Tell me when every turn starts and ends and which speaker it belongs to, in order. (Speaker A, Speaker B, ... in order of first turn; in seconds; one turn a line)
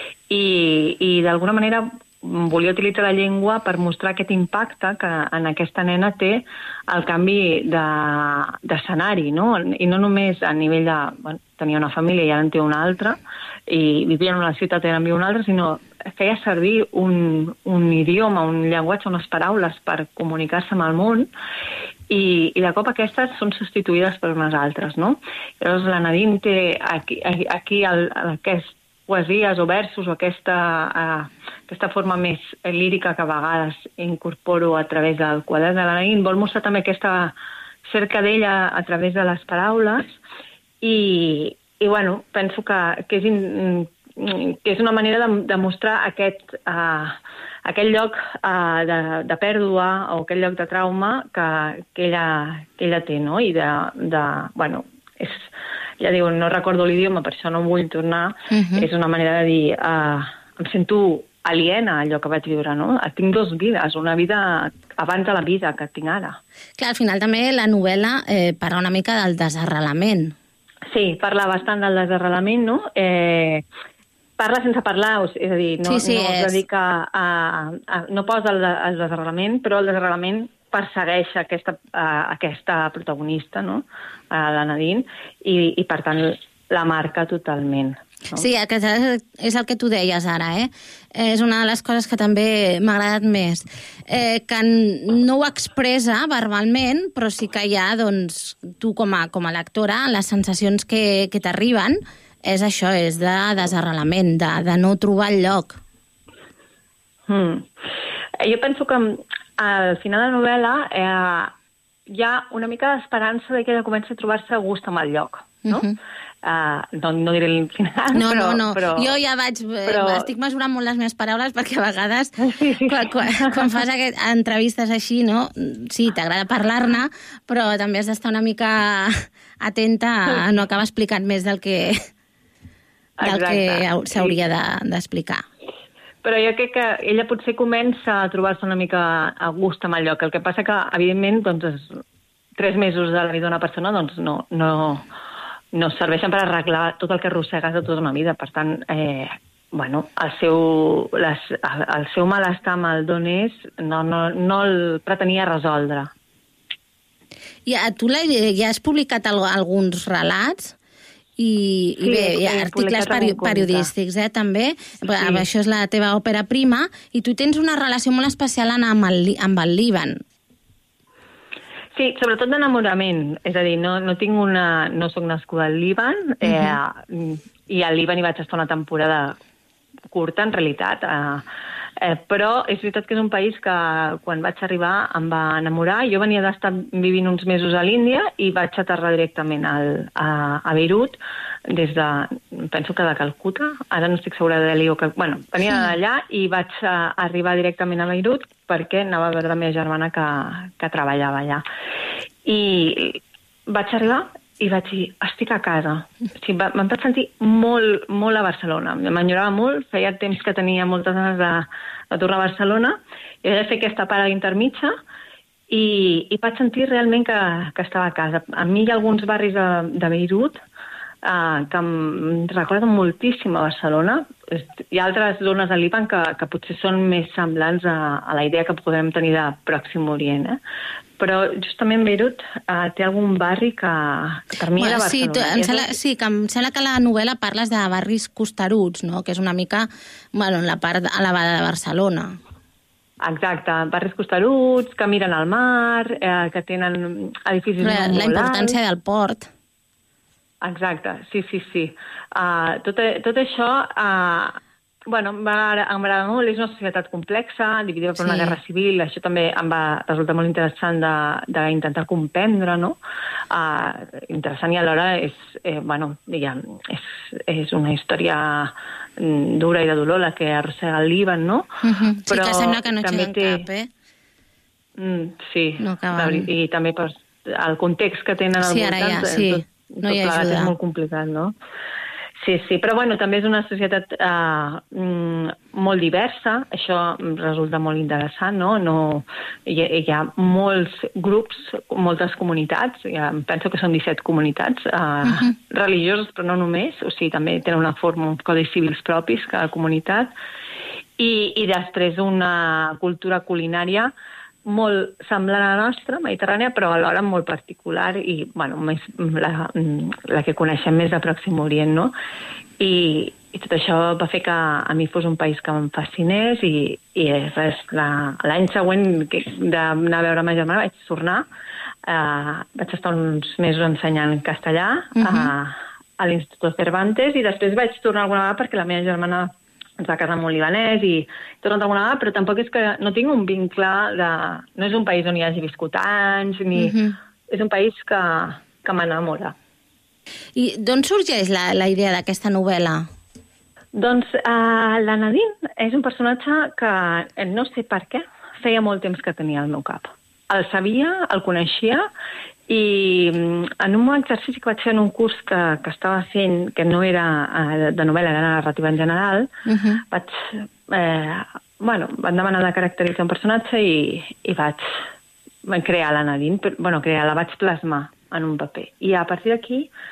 Speaker A: 0.3-21.3
Speaker A: 22.1-37.4
Speaker A: 37.9-40.2
Speaker A: 40.8-66.4
Speaker B: 58.5-58.9
Speaker B: 66.8-70.4
Speaker A: 70.9-73.7
Speaker A: 74.4-88.5
Speaker B: 75.8-76.6
Speaker B: 88.3-105.8
Speaker A: 107.3-107.7
Speaker A: 108.4-111.5
Speaker A: 112.1-115.9
Speaker B: 115.7-116.0
Speaker A: 116.4-119.2
Speaker B: 118.1-122.3
Speaker A: 119.9-120.3
Speaker A: 122.4-123.7
Speaker B: 122.9-132.0
Speaker A: 133.2-134.4
Speaker B: 133.2-135.4
Speaker A: 136.2-142.0
Speaker A: 142.6-145.1
Speaker A: 145.7-156.1
Speaker B: 157.7-160.8
Speaker B: 161.4-170.2
Speaker A: 162.0-163.9
Speaker A: 165.1-165.4
Speaker A: 172.0-179.4
Speaker B: 176.4-176.8
Speaker A: 180.1-181.4
Speaker A: 182.0-201.6
Speaker A: 202.4-214.9
Speaker A: 215.7-220.6
Speaker A: 221.2-230.6
Speaker A: 231.2-236.0
Speaker B: 234.8-242.4
Speaker A: 243.2-248.8
Speaker B: 247.8-249.5
Speaker A: 250.6-263.0
Speaker B: 258.2-258.6
Speaker A: 263.5-271.7
Speaker B: 271.8-273.9
Speaker A: 272.3-273.7
Speaker A: 275.0-281.5
Speaker B: 275.8-276.5
Speaker B: 278.6-280.7
Speaker A: 282.4-300.3
Speaker B: 295.2-295.5
Speaker A: 301.2-304.1
Speaker A: 304.7-312.1
Speaker A: 312.8-321.5
Speaker A: 322.1-337.0
Speaker B: 325.2-325.5
Speaker B: 336.8-337.1
Speaker A: 337.5-339.6
Speaker B: 340.6-343.1
Speaker A: 343.9-352.1
Speaker A: 352.7-359.5
Speaker B: 359.7-360.0
Speaker A: 360.1-364.9
Speaker A: 365.7-369.9